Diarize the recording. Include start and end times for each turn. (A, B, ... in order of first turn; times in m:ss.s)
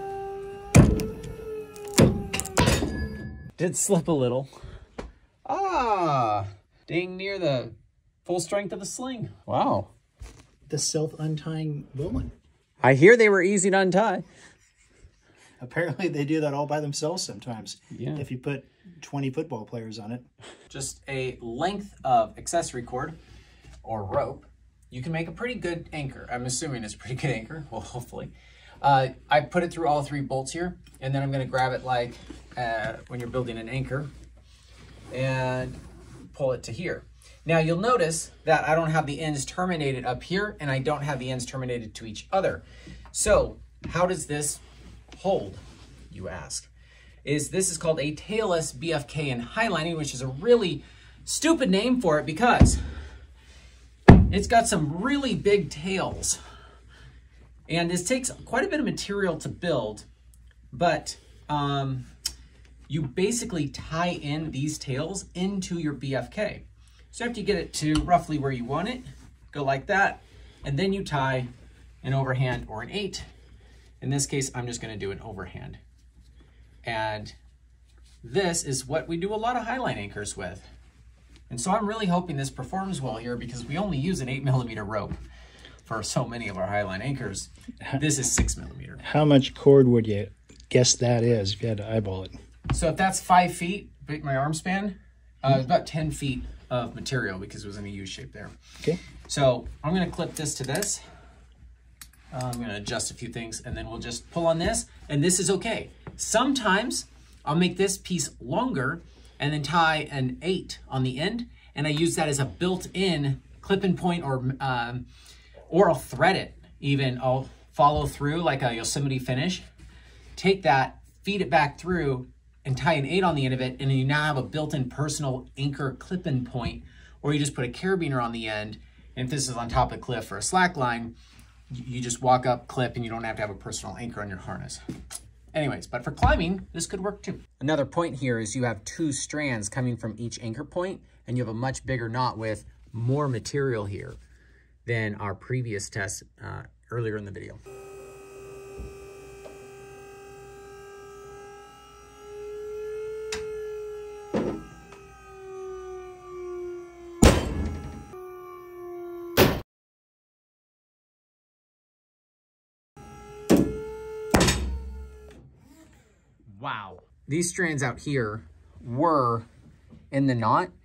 0:03.6-0:04.5 A
0:05.4-0:09.9 A
0:10.7-0:12.3 B
0:12.8-0:14.2 A
0:15.6-0:20.2 B
0:17.9-0:18.2 A
0:20.7-0:23.2 A
0:23.8-0:34.1 A
0:35.1-0:44.6 A
0:45.1-0:46.7 A
0:47.2-0:52.8 A
0:54.3-0:56.4 A
0:57.7-1:00.0 A
1:00.7-1:02.1 A
1:02.9-1:11.5 A
1:12.0-1:13.2 A
1:14.0-1:15.8 A
1:16.8-1:17.3 A
1:18.2-1:20.6 A
1:21.5-1:25.2 A
1:25.8-1:29.0 A
1:29.0-1:32.3 B
1:32.7-1:38.6 A
1:39.3-1:41.0 A
1:42.3-1:55.0 A
1:55.7-1:59.6 A
2:00.4-2:11.1 A
2:11.7-2:14.8 A
2:15.5-2:24.2 A
2:24.8-2:27.6 A
2:46.5-2:49.5 A
2:50.1-2:50.7 A